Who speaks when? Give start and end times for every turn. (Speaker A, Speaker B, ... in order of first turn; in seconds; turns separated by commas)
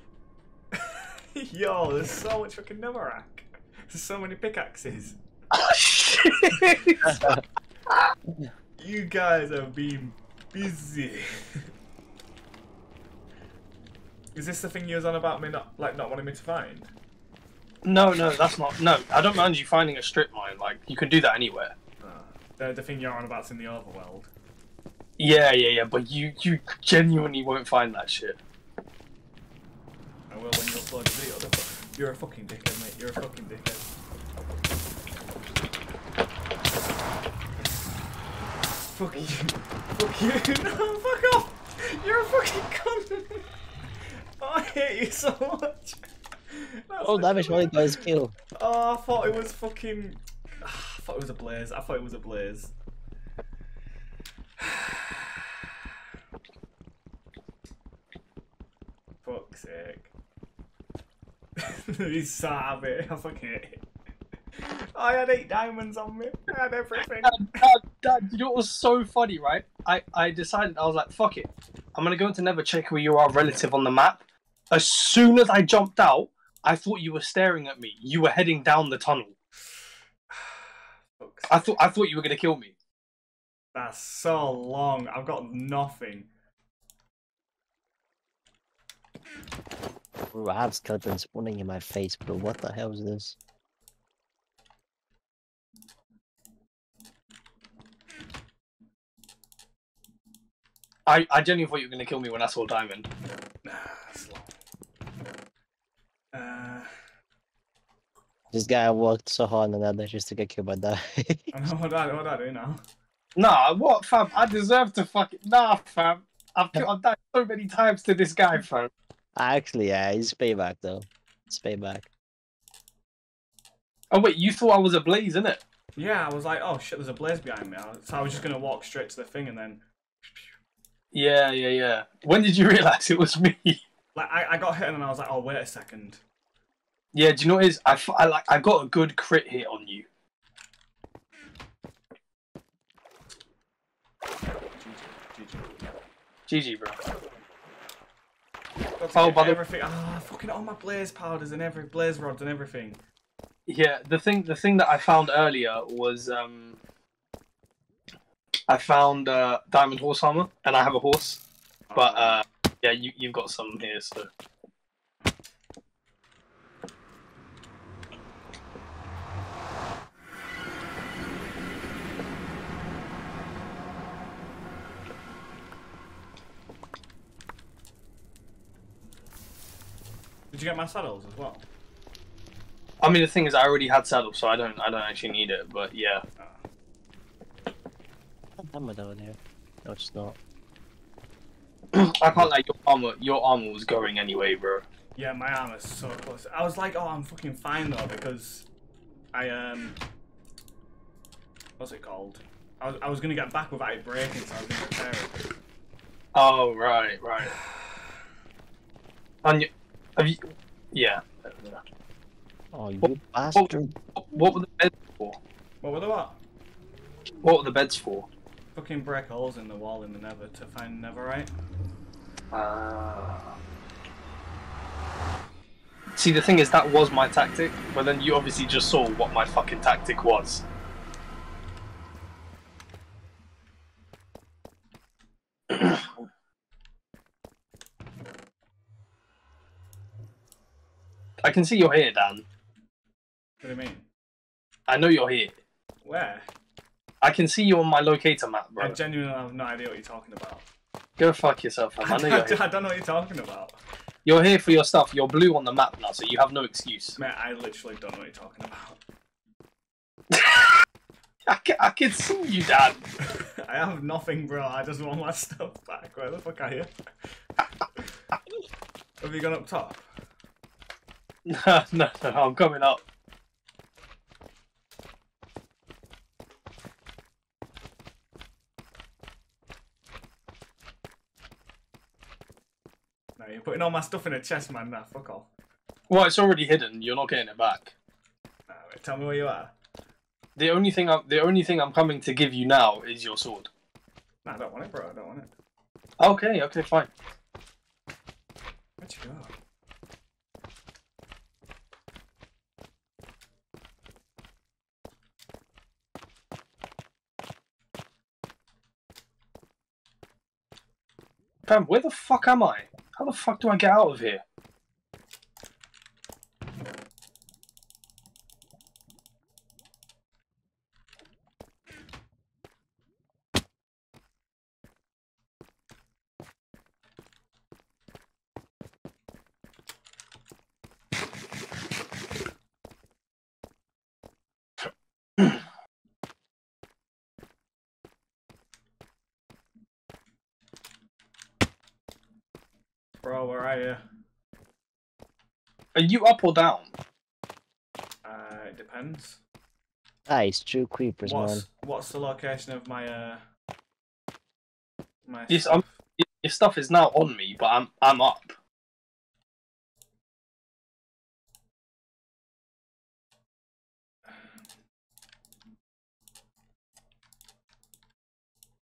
Speaker A: 0.7-5.2, Speaker B: 5.5-7.4, Speaker A: 6.5-6.8, Speaker C: 7.0-7.4, Speaker A: 8.8-11.6, Speaker A: 14.3-16.9, Speaker B: 17.9-21.8, Speaker A: 22.0-24.3, Speaker B: 25.2-28.4, Speaker A: 30.3-33.9, Speaker A: 38.9-43.5, Speaker A: 44.4-52.7, Speaker C: 47.0-48.3, Speaker A: 54.6-55.3, Speaker A: 59.2-60.1, Speaker A: 61.6-63.9, Speaker A: 64.5-67.7, Speaker B: 67.2-79.3, Speaker A: 80.3-81.7, Speaker B: 81.5-82.7, Speaker A: 83.7-86.3, Speaker C: 90.3-93.4, Speaker B: 101.1-103.1, Speaker A: 103.6-104.6, Speaker A: 106.3-106.9, Speaker C: 108.5-111.5, Speaker A: 111.5-112.8, Speaker B: 113.4-118.9, Speaker C: 119.4-122.1, Speaker B: 124.1-125.6, Speaker A: 126.0-130.5, Speaker B: 131.1-133.8, Speaker A: 134.2-136.2, Speaker B: 137.1-140.1, Speaker A: 144.7-145.8, Speaker B: 146.5-147.0, Speaker A: 149.0-153.0, Speaker B: 149.2-149.6, Speaker B: 153.7-156.8, Speaker B: 158.7-161.4, Speaker A: 161.9-162.4, Speaker B: 162.0-164.3, Speaker A: 180.5-181.7, Speaker B: 183.0-186.2, Speaker C: 188.6-190.4, Speaker B: 191.9-194.8, Speaker A: 195.2-198.7, Speaker A: 199.3-200.0, Speaker A: 201.8-205.5, Speaker B: 206.3-207.5, Speaker B: 209.4-211.8, Speaker C: 212.7-213.9, Speaker B: 213.0-215.4, Speaker A: 215.8-216.4, Speaker B: 217.4-218.3, Speaker A: 218.7-221.5, Speaker B: 222.5-223.5, Speaker B: 226.2-230.6, Speaker B: 235.7-236.1, Speaker B: 241.4-242.4, Speaker A: 243.6-244.1, Speaker B: 244.9-245.6, Speaker A: 246.0-246.5, Speaker B: 247.2-249.0, Speaker A: 248.8-250.7, Speaker B: 251.2-252.6, Speaker A: 252.0-253.8, Speaker B: 254.2-257.2, Speaker A: 257.2-259.0, Speaker B: 260.3-260.8, Speaker B: 261.5-263.0, Speaker A: 263.2-266.9, Speaker A: 269.2-270.0, Speaker B: 271.5-273.0, Speaker A: 283.4-285.5, Speaker B: 286.1-287.9, Speaker A: 288.7-289.7, Speaker B: 290.6-293.7, Speaker A: 294.4-295.5, Speaker B: 296.2-297.1, Speaker A: 299.0-299.5, Speaker B: 311.7-314.4, Speaker A: 343.2-344.0, Speaker B: 345.9-346.9, Speaker A: 348.2-349.4, Speaker C: 350.3-351.6, Speaker A: 351.2-353.4, Speaker A: 355.3-356.0, Speaker B: 355.5-358.6